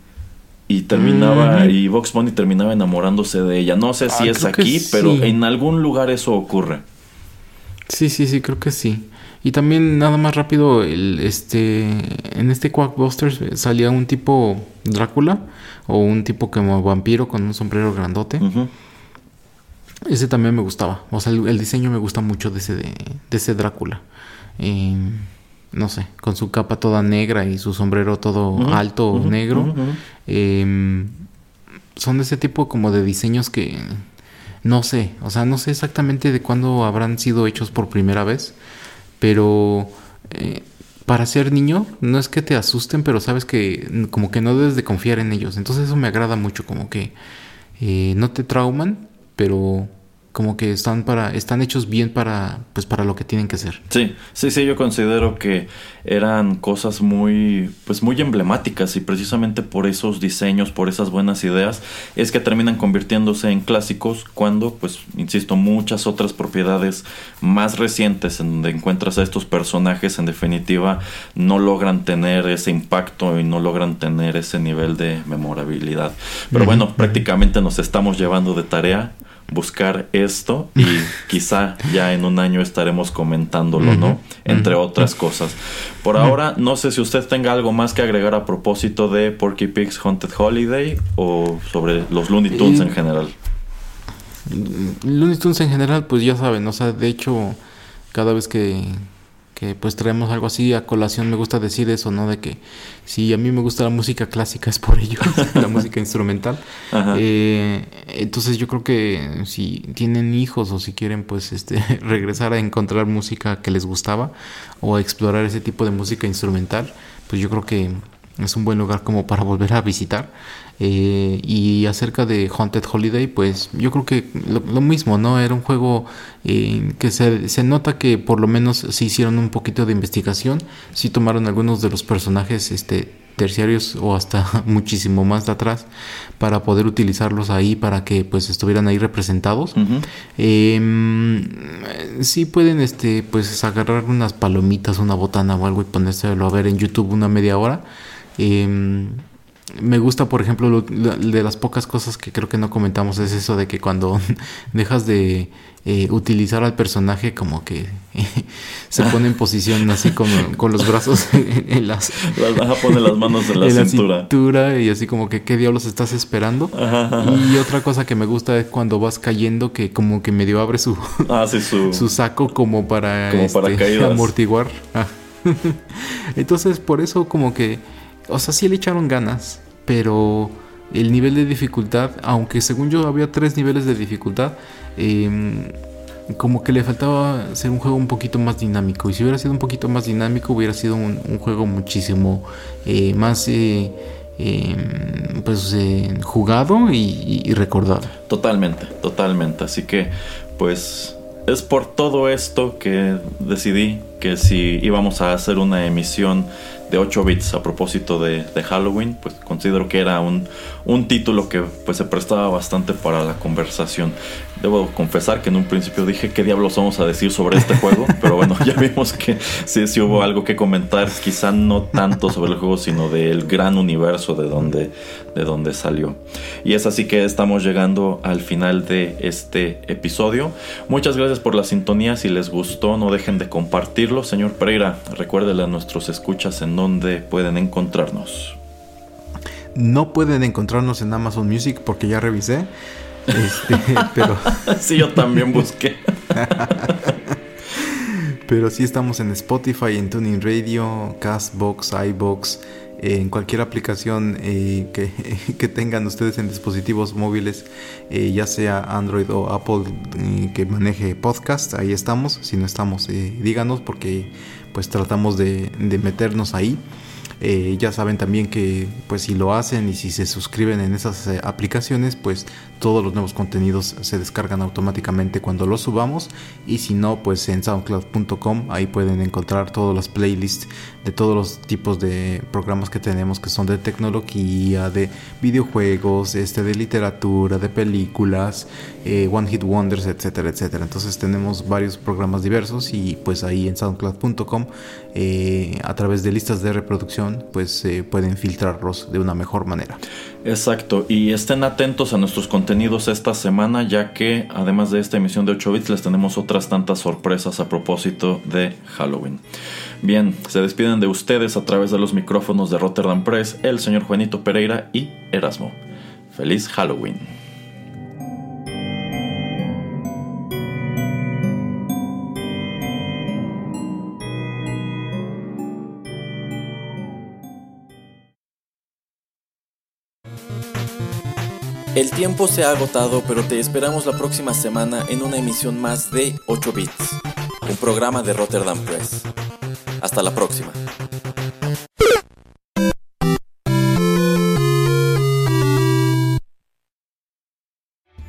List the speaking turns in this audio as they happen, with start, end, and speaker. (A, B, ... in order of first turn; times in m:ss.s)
0:00.7-0:06.8 A
0:00.9-0:01.7 B
0:04.1-0:05.3 B
0:07.9-0:18.4 B
0:18.4-0:18.7 A
0:20.0-0:24.0 B
0:24.6-0:29.7 B
0:28.5-0:30.0 A
0:30.2-0:31.2 B
0:31.9-0:34.0 B
0:34.6-0:38.6 B
0:39.2-0:47.1 B
0:47.8-0:53.8 B
0:53.9-1:33.3 A
1:16.5-1:17.2 B
1:23.8-1:24.7 B
1:32.5-1:32.9 B
1:34.4-1:37.6 B
1:38.1-2:19.8 B
1:46.9-1:47.2 A
2:19.8-2:20.0 A
2:20.4-2:27.8 B
2:28.4-2:51.3 B
2:42.2-2:44.3 A
2:46.7-2:47.6 A
2:51.2-2:52.1 A
2:51.9-3:05.7 B
2:53.3-2:54.3 A
3:06.3-3:18.1 B
3:18.3-3:58.6 A
3:59.7-4:02.7 B
4:03.3-4:05.4 B
4:03.3-4:07.2 A
4:06.3-4:26.8 B
4:27.4-5:00.0 B
5:00.4-5:09.4 A
5:10.0-5:15.8 A
5:16.3-5:17.3 A
5:32.0-5:39.3 A
5:40.0-5:40.8 A